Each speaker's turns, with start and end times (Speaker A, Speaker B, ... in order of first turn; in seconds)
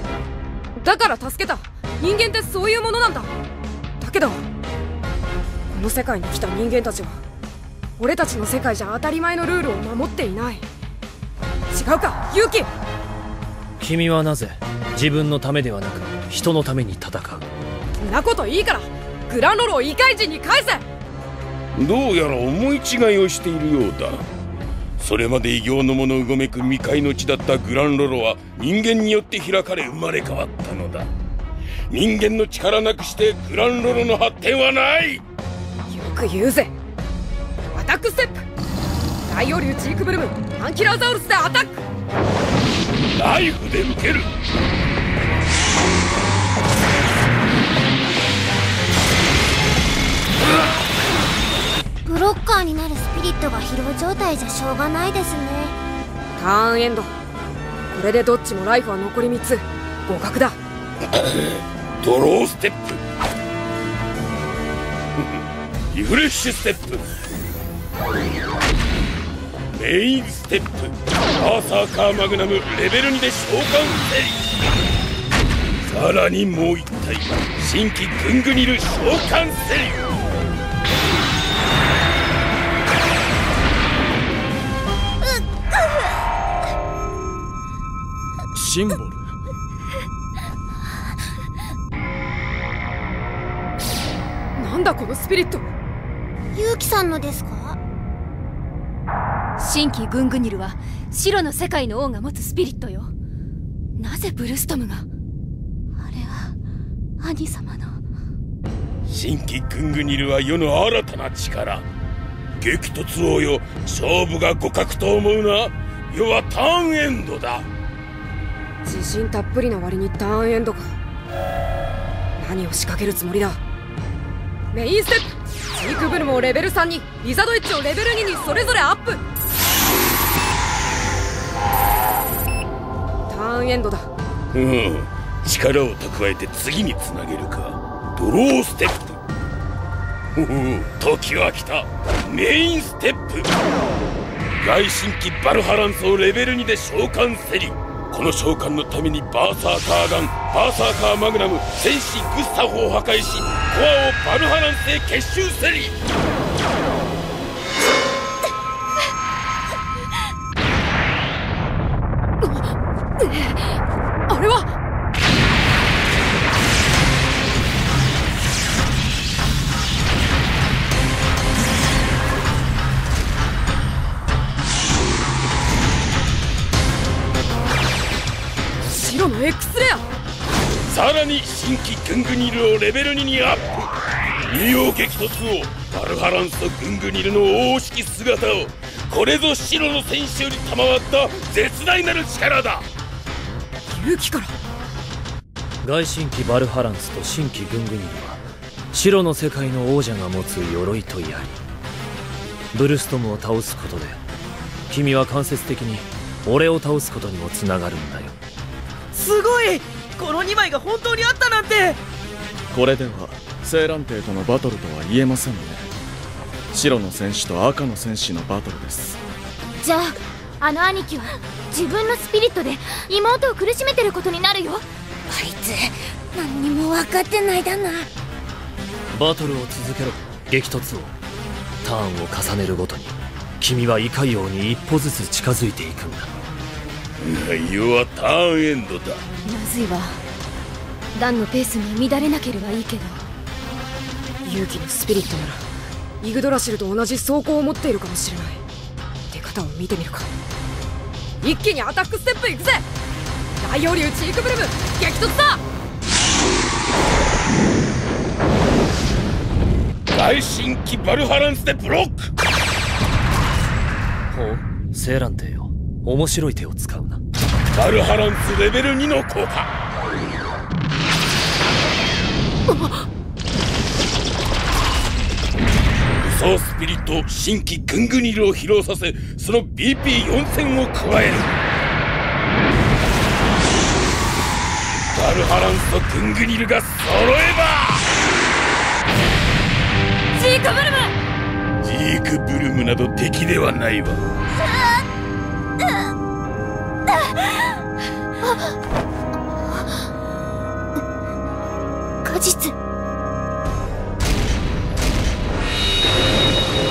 Speaker A: 0.8-3.3, 4.0-4.4, 5.7-7.2, 8.0-10.7, 11.7-12.7, 18.0-20.8, 35.9-36.7, 37.7-38.5, 39.3-41.8, 56.4-57.1, 57.9-60.6, 94.6-95.6, 118.8-120.9, 122.4-123.6, 124.7-129.2, 133.3-134.1, 164.3-164.7, 178.9-180.1, 193.9-194.5, 244.4-245.7, 246.2-248.6, 249.3-250.3, 251.4-252.8, 253.6-255.6
Speaker B: 13.8-17.5, 195.8-201.6, 202.7-204.2, 204.9-208.4, 229.1-231.2, 231.8-236.3, 264.3-267.2
Speaker C: 21.8-24.3, 25.0-31.1, 31.9-35.2, 43.2-44.3, 61.1-63.0, 65.9-67.0, 69.7-74.5, 75.8-80.2, 109.1-111.8, 112.6-117.7, 134.5-139.2, 140.4-143.5, 144.6-156.0, 180.9-183.9, 184.5-192.9, 237.2-239.2, 260.1-262.3, 267.7-269.7, 276.2-281.6, 285.1-288.1, 291.8-294.2
Speaker D: 52.0-55.8, 96.5-97.8, 225.3-228.1
Speaker E: 88.5-89.3, 212.7-215.9, 216.7-219.2
Speaker F: 99.6-103.1, 104.0-105.1, 106.0-106.5, 107.2-108.0, 239.4-240.2, 241.1-243.3, 290.4-291.1
Speaker G: 209.1-212.0